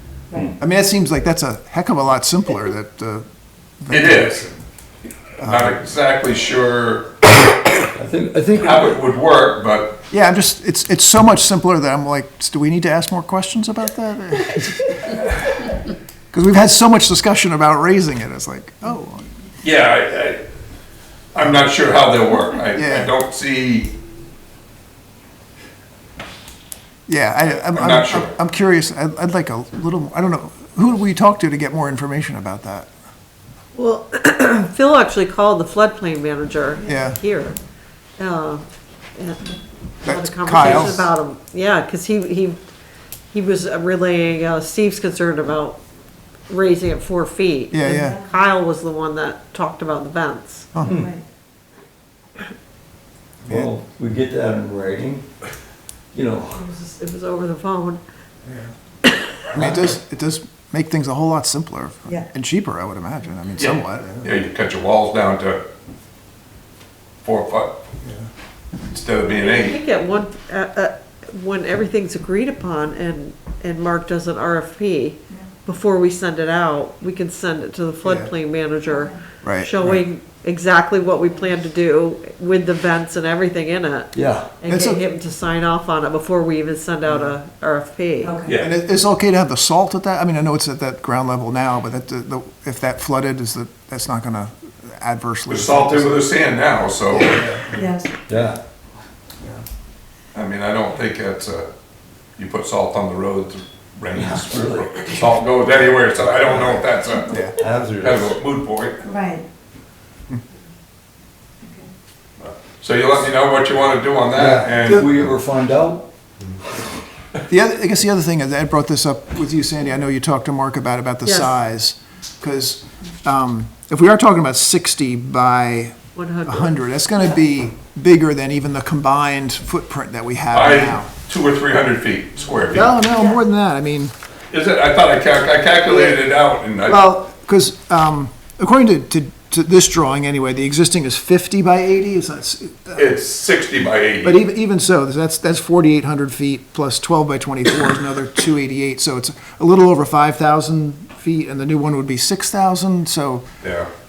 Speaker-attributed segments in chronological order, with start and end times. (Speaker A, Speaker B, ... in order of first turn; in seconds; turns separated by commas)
Speaker A: 0.6-3.2, Speaker A: 3.8-4.6, Speaker B: 3.9-4.5, Speaker A: 5.4-5.8, Speaker B: 5.4-7.2, Speaker C: 8.0-9.0, Speaker B: 8.6-10.0, Speaker A: 10.1-15.8, Speaker A: 16.3-19.3, Speaker B: 19.6-20.4, Speaker B: 21.4-23.9, Speaker A: 22.7-23.1, Speaker A: 27.1-32.9, Speaker B: 27.5-28.4, Speaker D: 33.8-37.6, Speaker A: 36.9-37.2, Speaker D: 38.2-38.6, Speaker D: 39.2-39.5, Speaker D: 40.0-42.6, Speaker A: 40.0-41.1, Speaker B: 40.6-40.9, Speaker D: 43.3-45.8, Speaker D: 46.5-50.7, Speaker A: 47.7-48.2, Speaker E: 47.9-48.2, Speaker A: 50.7-51.1, Speaker C: 50.8-51.1, Speaker E: 50.9-51.2, Speaker C: 53.5-55.3, Speaker A: 53.5-53.7, Speaker C: 56.1-56.6, Speaker D: 56.5-58.0, Speaker A: 58.5-58.7, Speaker D: 59.0-59.4, Speaker A: 59.5-64.4, Speaker B: 63.6-65.6, Speaker B: 67.2-67.8, Speaker B: 68.8-69.8, Speaker D: 69.3-88.4, Speaker A: 78.0-78.3, Speaker A: 79.4-80.0, Speaker C: 84.1-84.5, Speaker A: 84.7-85.0, Speaker A: 87.1-87.4, Speaker E: 88.2-88.5, Speaker B: 88.5-88.7, Speaker A: 88.6-96.2, Speaker B: 95.5-97.8, Speaker A: 97.1-97.8, Speaker E: 97.8-98.1, Speaker C: 98.3-98.6, Speaker B: 100.3-101.7, Speaker B: 102.4-109.0, Speaker C: 104.1-105.5, Speaker C: 106.1-108.4, Speaker A: 107.3-107.5, Speaker E: 109.0-109.4, Speaker E: 111.6-111.9, Speaker B: 112.4-115.3, Speaker C: 114.3-116.1, Speaker A: 114.8-115.1, Speaker A: 117.5-131.1, Speaker D: 121.2-121.6, Speaker D: 126.2-126.7, Speaker B: 130.5-133.0, Speaker A: 132.7-134.1, Speaker B: 134.5-137.0, Speaker A: 135.9-136.2, Speaker A: 136.9-143.1, Speaker B: 142.9-144.4, Speaker A: 144.2-153.4, Speaker B: 153.6-153.9